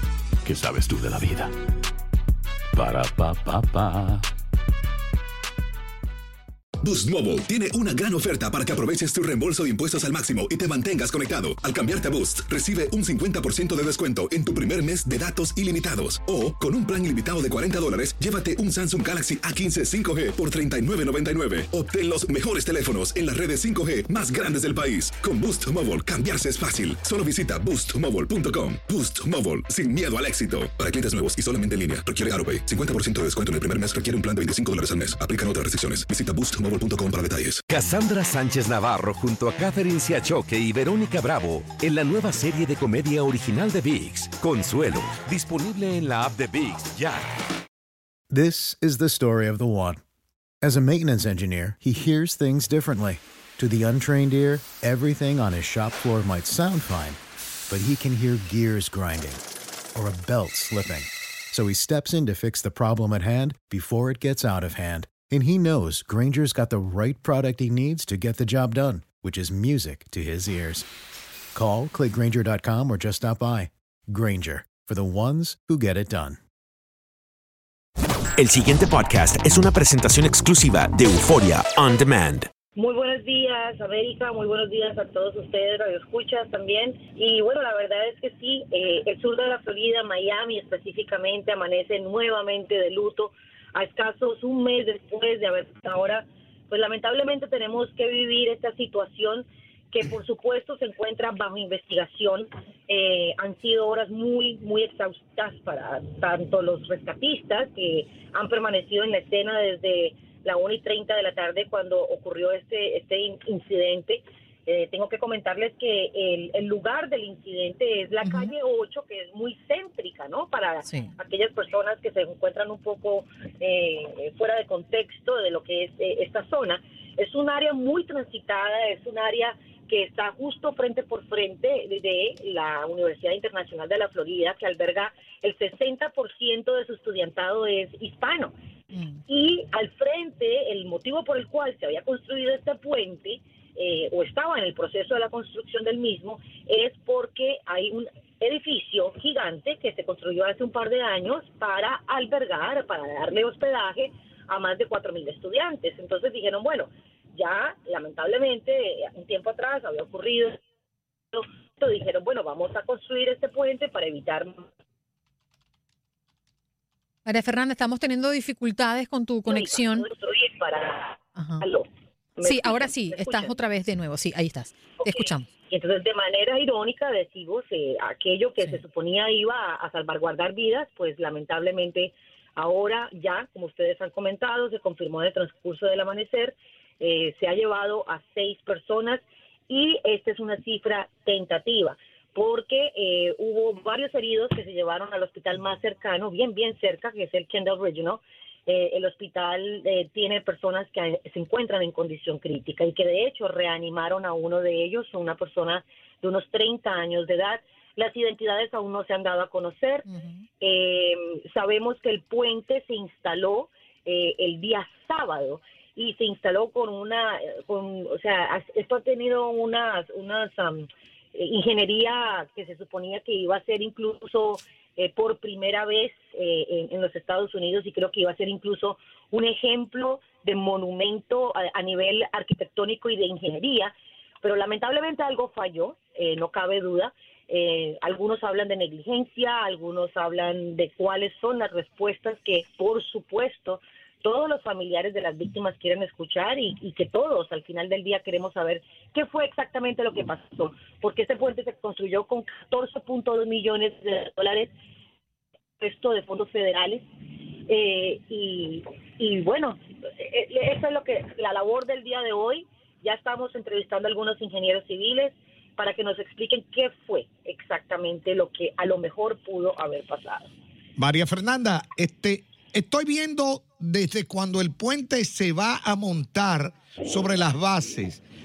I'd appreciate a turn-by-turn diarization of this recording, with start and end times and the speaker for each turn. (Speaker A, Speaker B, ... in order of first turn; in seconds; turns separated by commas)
Speaker A: 0.4-1.5, Speaker A: 2.7-4.3, Speaker B: 6.8-37.6, Speaker C: 37.7-47.2, Speaker D: 48.3-50.0, Speaker D: 50.6-57.2, Speaker D: 57.7-59.4, Speaker D: 60.0-70.8, Speaker D: 71.5-76.4, Speaker E: 78.4-82.5, Speaker F: 82.8-138.5, Speaker G: 118.2-118.5, Speaker G: 120.8-121.1, Speaker G: 138.9-139.2, Speaker F: 139.3-160.6, Speaker F: 161.3-164.7, Speaker G: 167.2-170.1, Speaker F: 169.5-173.5, Speaker G: 171.3-171.6, Speaker G: 172.4-175.5, Speaker F: 175.0-210.1, Speaker G: 210.1-210.4, Speaker F: 210.6-254.7, Speaker F: 255.8-257.0, Speaker F: 257.7-270.5, Speaker H: 271.0-278.2